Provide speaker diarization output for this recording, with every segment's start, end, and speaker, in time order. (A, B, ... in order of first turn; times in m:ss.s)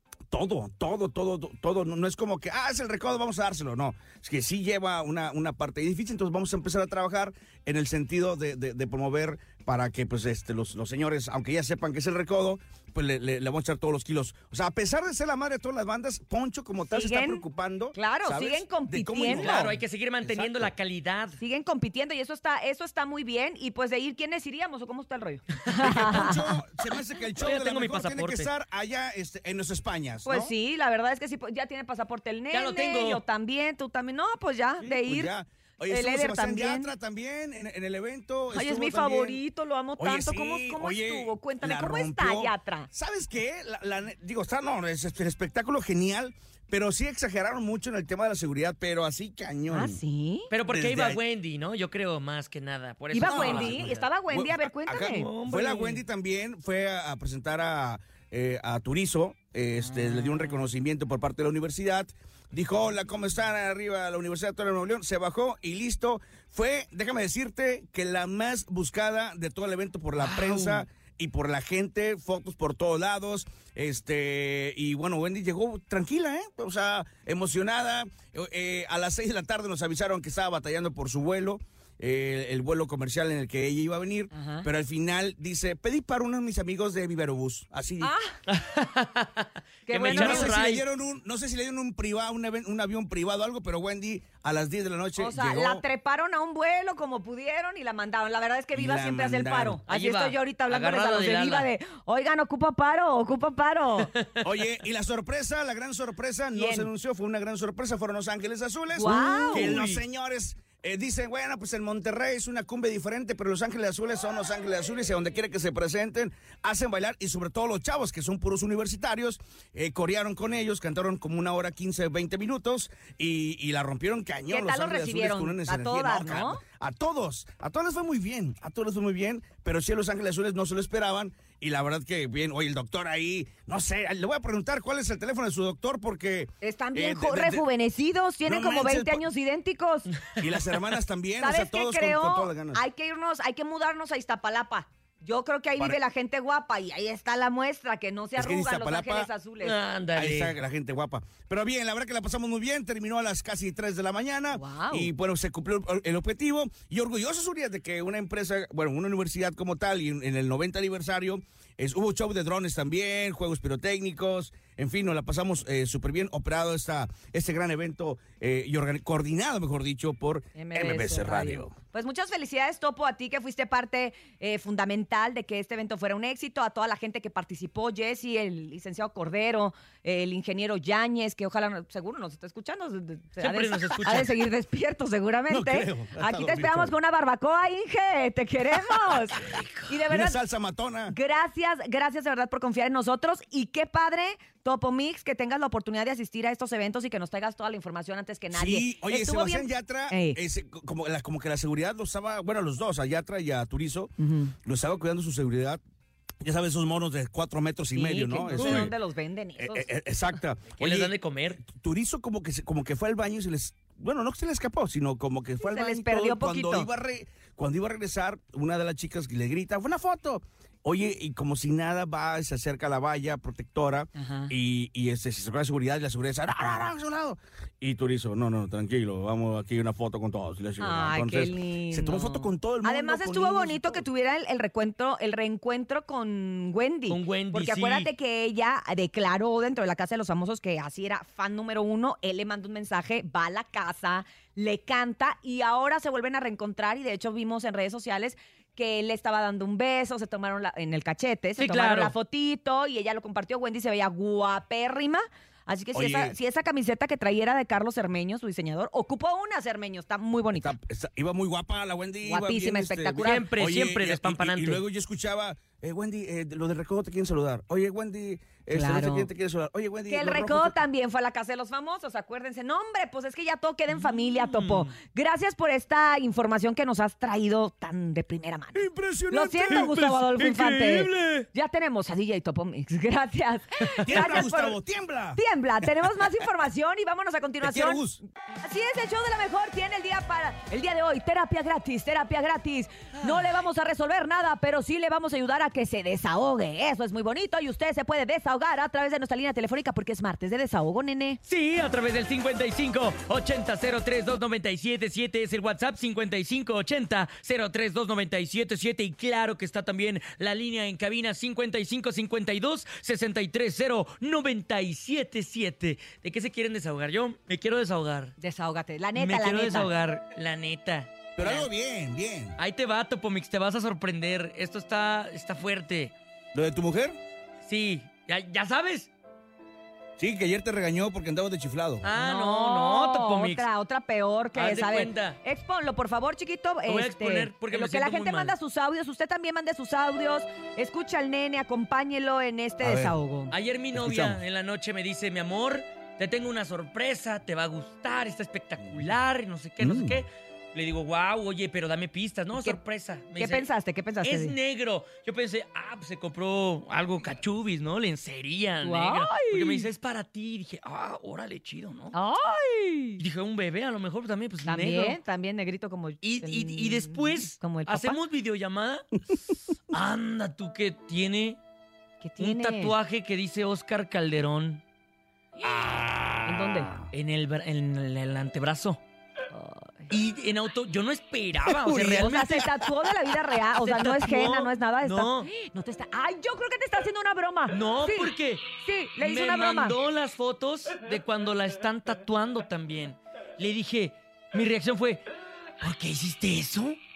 0:00.3-0:20.7 A
0:16.9-0:17.4 B
0:18.0-0:19.7 B
0:19.2-0:21.4 C
0:21.4-0:26.4 B
0:25.8-0:30.5 A
0:25.9-0:26.2 C
0:27.4-0:28.5 C
0:30.2-0:35.3 B
0:32.5-0:33.2 C
0:34.8-0:39.4 A
0:35.9-0:36.9 B
0:38.5-0:42.9 B
0:40.0-0:50.0 A
0:49.7-0:50.5 B
0:50.5-0:53.9 C
0:50.7-0:51.2 A
0:53.1-0:55.3 B
0:53.2-1:28.1 A
0:55.0-0:56.0 C
0:59.8-1:00.6 B
1:24.3-1:24.7 B
1:28.0-1:28.3 B
1:28.5-1:30.8 C
1:29.9-1:30.6 B
1:30.0-1:35.8 A
1:35.2-1:44.1 B
1:38.7-1:39.8 A
1:39.9-1:41.7 C
1:44.4-2:17.7 A
1:46.5-1:46.9 B
1:49.0-1:49.8 B
1:49.0-1:50.0 C
2:04.5-2:06.6 B
2:16.6-2:20.1 B
2:18.5-2:19.3 A
2:20.4-2:22.8 A
2:21.4-2:29.8 B
2:28.4-2:29.3 A
2:29.6-2:30.6 C
2:30.1-2:51.8 A
2:34.5-2:35.1 B
2:50.6-3:10.4 B
3:03.4-3:04.3 C
3:05.5-3:06.9 A
3:09.4-3:09.9 C
3:10.1-3:11.2 A
3:11.1-3:20.4 B
3:18.5-3:24.1 A
3:24.2-3:24.5 B
3:24.6-3:25.8 A
3:26.4-3:28.9 A
3:27.9-3:29.9 B
3:28.6-3:28.9 C
3:29.6-3:54.0 A
3:30.8-3:31.6 C
3:35.6-3:36.9 B
3:44.2-3:44.5 B
3:50.8-4:20.8 B
3:57.1-3:58.1 C
4:11.6-4:12.1 C
4:16.0-4:16.4 A
4:20.5-4:30.8 A
4:22.3-4:23.5 B
4:23.2-4:24.8 C
4:28.7-4:29.3 B
4:30.1-4:44.8 B
4:33.9-4:34.9 C
4:38.8-4:40.1 A
4:39.7-4:41.5 C
4:44.0-4:46.3 A
4:44.1-4:44.4 C
4:45.4-4:48.0 B
4:47.6-4:48.2 A
4:48.6-5:01.4 B
5:01.4-5:18.3 C
5:18.4-5:19.9 B
5:19.2-5:21.7 C
5:21.4-5:22.6 A
5:22.6-5:26.1 C
5:26.6-5:27.2 A
5:27.6-5:29.1 C
5:30.2-5:32.0 A
5:32.0-5:33.7 C
5:32.1-5:43.5 B
5:34.5-5:35.4 C
5:36.9-5:38.6 C
5:42.8-5:43.2 A
5:43.5-5:53.7 C
5:43.9-5:44.4 A
5:48.8-5:49.1 A
5:49.8-5:50.2 A
5:53.4-5:54.6 B
5:54.2-6:02.1 C
5:58.8-5:59.9 B
6:02.1-6:03.2 B
6:03.2-6:05.2 C
6:04.6-6:08.2 B
6:06.2-6:09.1 C
6:09.9-6:11.6 C
6:12.2-6:12.9 B
6:12.4-6:14.8 C
6:15.8-6:17.1 A
6:16.4-6:16.9 B
6:17.1-6:19.0 C
6:19.5-6:20.1 B
6:20.1-6:22.6 C
6:21.7-6:22.8 A
6:22.0-6:30.0 B
6:23.8-6:25.5 C
6:27.7-6:35.2 C
6:35.8-6:37.0 C